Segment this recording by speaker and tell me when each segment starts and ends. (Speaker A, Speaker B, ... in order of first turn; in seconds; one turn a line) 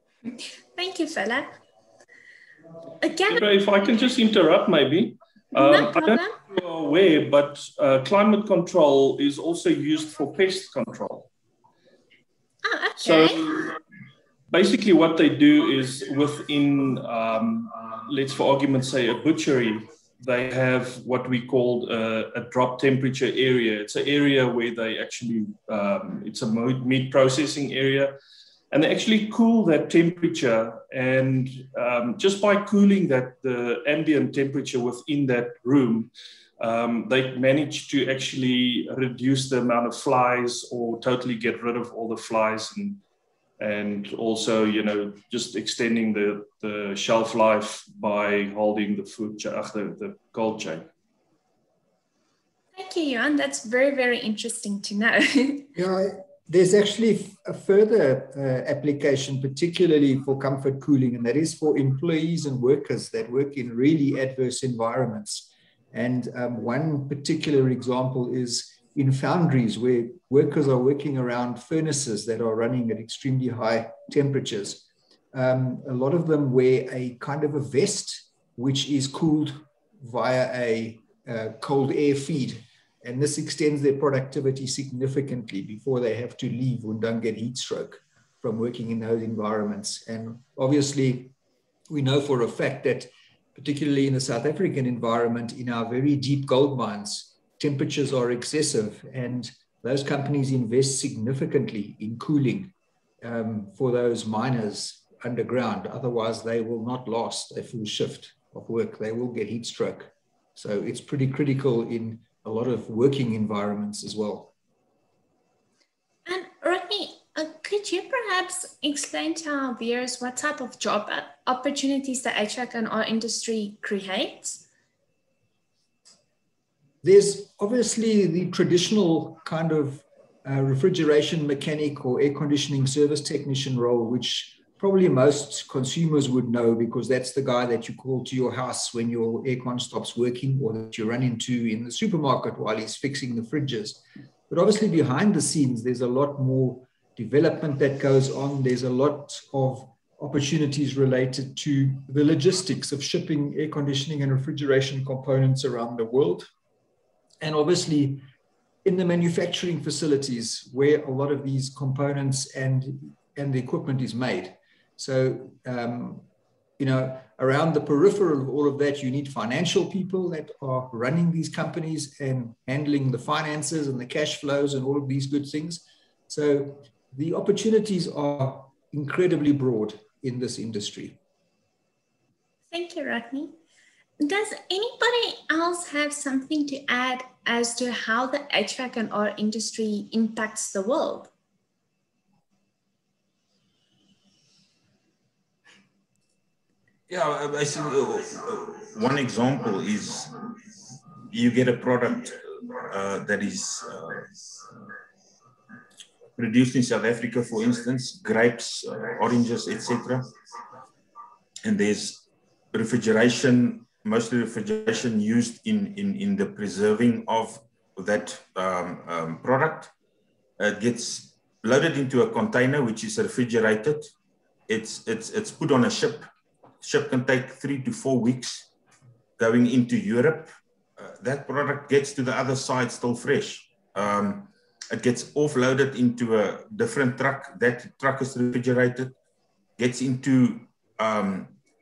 Speaker A: 0.3-1.6
Speaker A: 3.0-3.4
Speaker B: 3.3-11.3
Speaker A: 5.5-6.3
Speaker A: 12.6-13.4
Speaker B: 13.0-13.6
Speaker B: 14.5-28.1
Speaker B: 28.7-43.0
Speaker B: 43.6-50.9
Speaker A: 52.7-55.7
Speaker C: 55.7-91.3
Speaker C: 91.9-114.5
Speaker A: 116.2-124.6
Speaker C: 127.0-156.5
Speaker C: 157.4-158.2
Speaker C: 158.8-166.2
Speaker C: 166.8-181.2
Speaker A: 182.7-183.5
Speaker A: 184.2-191.3
Speaker D: 197.1-200.3
Speaker D: 201.3-204.3
Speaker D: 206.4-210.2
Speaker D: 211.6-219.9
Speaker D: 220.6-224.1
Speaker D: 224.7-226.3
Speaker D: 226.8-228.7
Speaker D: 229.4-239.2
Speaker D: 239.8-241.6